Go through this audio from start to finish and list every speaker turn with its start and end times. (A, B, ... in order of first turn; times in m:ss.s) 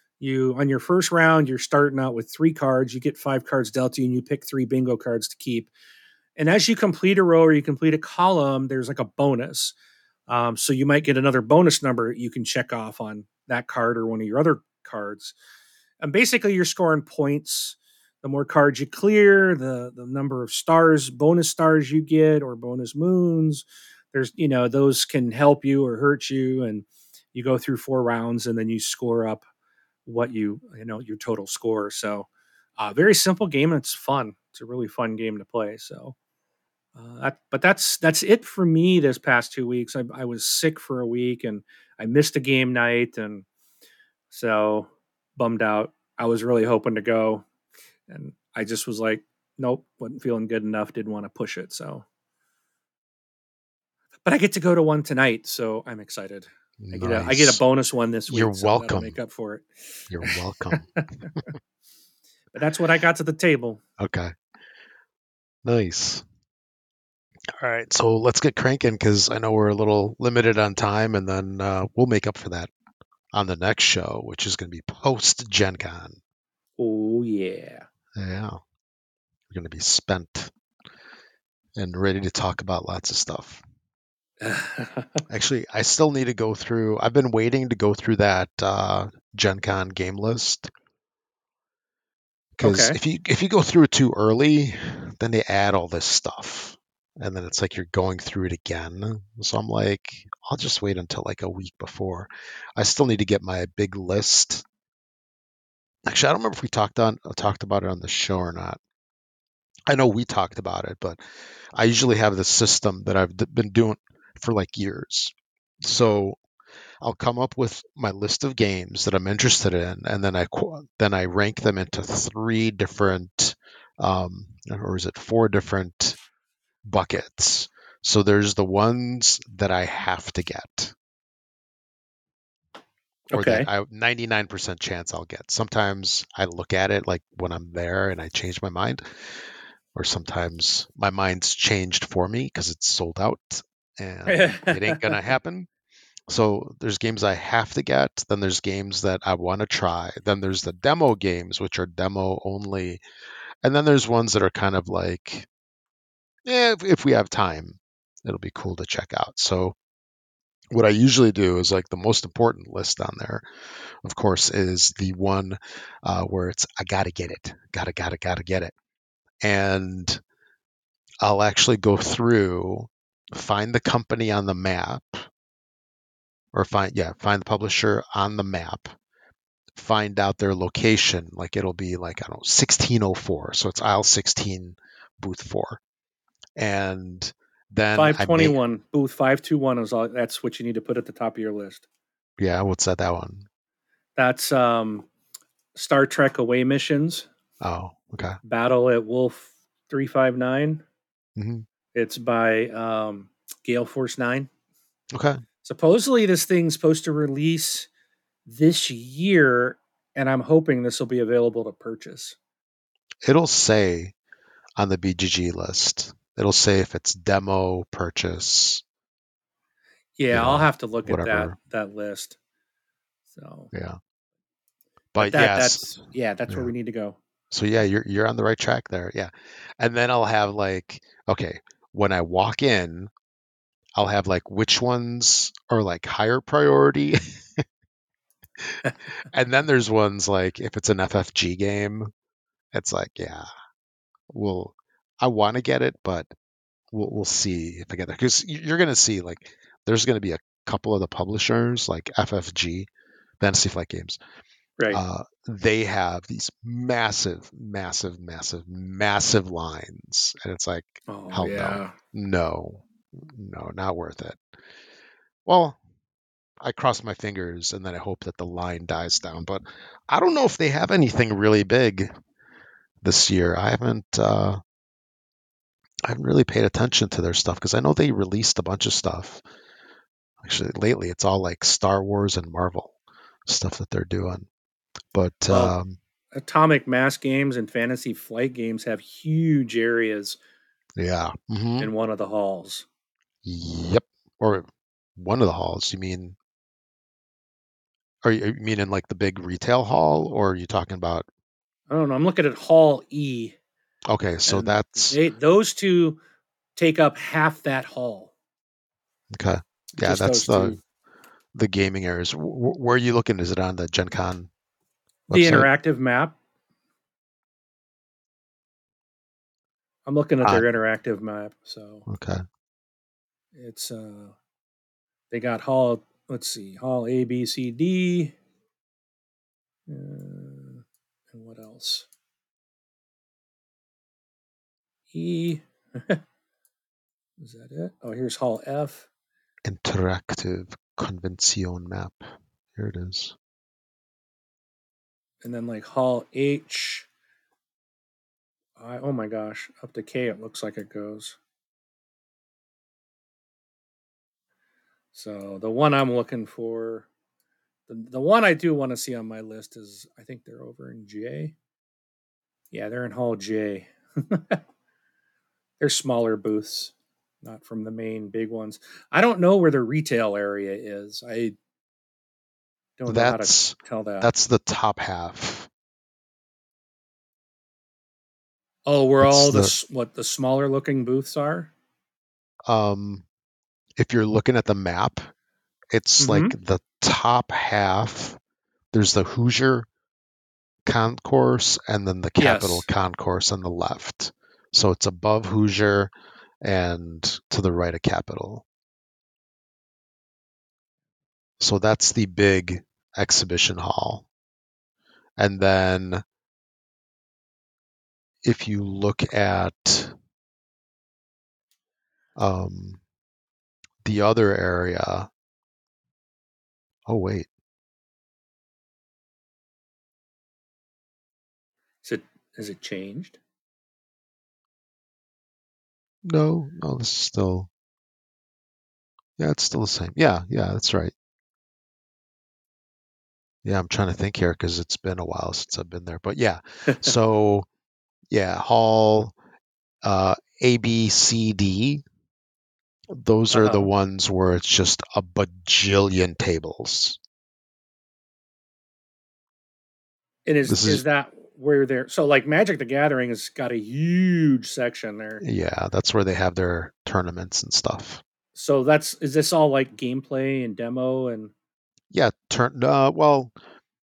0:00.2-0:05.7 A
0:06.4-0:09.8 A
0:10.3-0:15.4 A
0:16.0-0:29.4 A
0:30.1-0:36.1 A
0:37.0-0:43.5 A
0:44.3-0:47.5 A
0:48.1-0:52.0 A
0:54.2-0:59.7 A
0:56.8-0:57.6 B
0:58.3-0:59.2 B
1:00.1-1:00.9 B
1:00.2-1:01.3 A
1:02.5-1:03.8 A
1:04.0-1:04.3 B
1:05.6-1:06.2 B
1:07.6-1:12.7 B
1:13.3-1:16.2 B
1:16.8-1:17.9 A
1:18.1-1:18.6 B
1:19.5-1:20.5 B
1:21.8-1:23.6 B
1:24.4-1:25.2 A
1:25.3-1:30.7 B
1:32.6-1:44.6 B
1:32.6-1:33.0 A
1:46.1-1:48.8 B
1:49.9-1:51.2 B
1:51.8-1:56.4 B
1:57.0-2:06.2 B
2:06.8-2:10.9 B
2:13.3-2:19.0 B
2:13.3-2:13.7 A
2:19.9-2:25.7 B
2:24.3-2:25.1 A
2:26.3-2:33.0 B
2:33.6-2:35.5 B
2:36.4-2:39.8 B
2:40.7-2:43.4 B
2:44.0-2:48.7 B
2:49.4-2:50.2 B
2:51.2-2:55.3 B
2:56.5-2:58.9 B
2:59.8-3:05.8 B
3:06.6-3:08.6 B
3:08.0-3:11.9 A
3:12.4-3:13.5 B
3:14.2-3:15.1 A
3:15.8-3:17.3 A
3:17.6-3:18.4 B
3:18.4-3:20.8 A
3:21.4-3:21.6 B
3:21.9-3:24.5 A
3:25.1-3:25.4 B
3:25.6-3:27.9 A
3:28.5-3:32.4 A
3:33.2-3:34.1 B
3:34.8-3:38.8 B
3:40.2-3:42.4 A
3:40.3-3:41.6 B
3:43.3-3:43.7 A
3:43.7-3:44.0 B
3:45.1-3:46.7 B
3:45.2-3:47.2 A
3:47.5-3:53.1 B
3:54.0-3:57.6 B
3:58.6-4:02.1 B
4:02.7-4:03.5 B
4:04.3-4:06.3 B
4:06.9-4:12.9 B
4:13.4-4:14.2 B
4:14.9-4:24.4 B
4:21.1-4:22.0 A
4:25.5-4:25.8 B
4:26.6-4:32.1 B
4:33.0-4:34.6 B
4:36.0-4:39.4 B
4:40.4-4:43.0 B
4:43.5-4:44.5 B
4:45.1-4:46.0 B
4:45.5-4:45.8 A
4:46.4-4:50.4 A
4:51.0-4:51.9 B
4:51.8-4:52.9 A
4:53.4-4:56.4 B
4:58.2-5:01.3 B
5:01.9-5:03.6 A
5:04.1-5:05.2 B
5:04.5-5:06.2 A
5:06.8-5:08.3 A
5:09.3-5:10.8 B
5:10.0-5:10.8 A
5:11.5-5:14.5 B
5:15.3-5:15.7 B
5:15.3-5:16.4 A
5:20.1-5:22.1 A
5:22.1-5:22.4 B
5:23.6-5:24.4 A
5:25.3-5:28.4 A
5:29.9-5:32.1 A
5:35.1-5:36.2 A
5:37.4-5:39.1 A
5:39.6-5:42.2 B
5:42.8-5:43.4 B
5:45.4-5:47.1 A
5:48.8-5:51.4 A
5:55.1-5:57.1 A
5:57.9-6:01.6 A
6:02.7-6:04.6 A
6:05.8-6:11.6 A
6:13.0-6:14.3 A
6:13.1-6:15.7 B
6:18.9-6:21.7 A
6:19.2-6:19.7 B
6:22.7-6:23.3 B
6:24.0-6:25.3 B
6:25.9-6:28.4 B
6:26.2-6:26.5 A
6:28.9-6:29.9 B
6:30.9-6:36.1 B
6:32.4-6:32.9 A
6:36.6-6:38.6 B
6:41.6-6:44.3 B
6:45.4-6:46.2 B
6:48.4-6:50.1 B
6:52.4-6:53.0 B
6:54.0-6:55.3 B
6:57.1-6:57.5 B
7:02.0-7:03.4 A
7:06.2-7:07.7 B
7:09.4-7:11.1 B
7:13.6-7:17.7 B
7:18.3-7:19.4 B
7:20.0-7:22.0 B
7:23.1-7:27.2 B
7:23.5-7:23.9 A
7:30.5-7:35.4 A
7:30.7-7:31.0 B
7:35.4-7:38.2 B
7:38.6-7:41.5 A
7:42.1-7:43.5 B